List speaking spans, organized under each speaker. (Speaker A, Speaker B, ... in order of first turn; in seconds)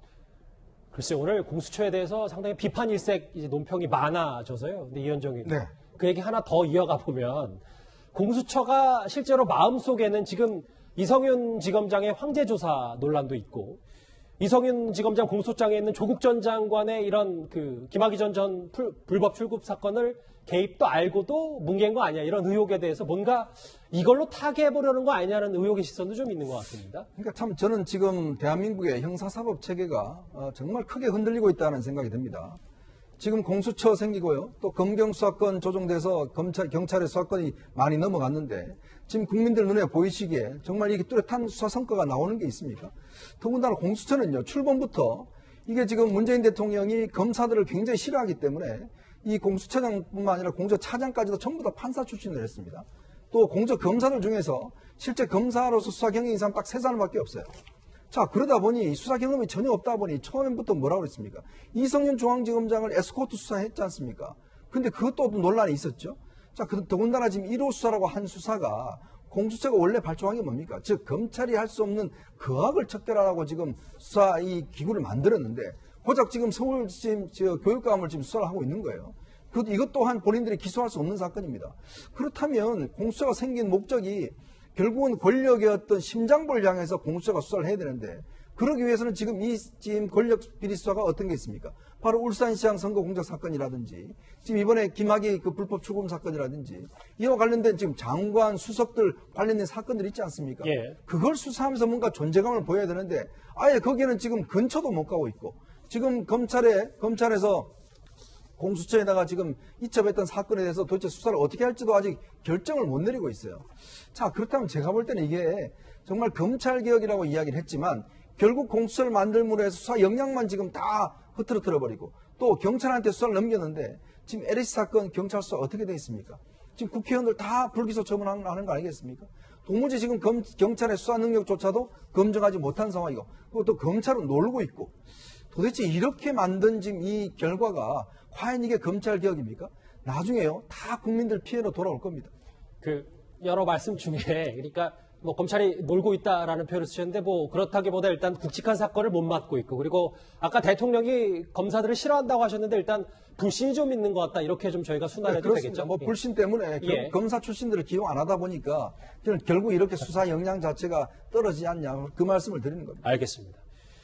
Speaker A: 0.9-7.6, 8.1-13.8, 14.4-27.1, 100.6-101.0, 142.8-156.2, 156.8-157.1, 163.0-163.6
Speaker B: 5.4-5.7, 27.2-32.6, 33.2-57.5, 58.1-107.7, 108.6-134.9, 135.5-142.3, 155.2-163.0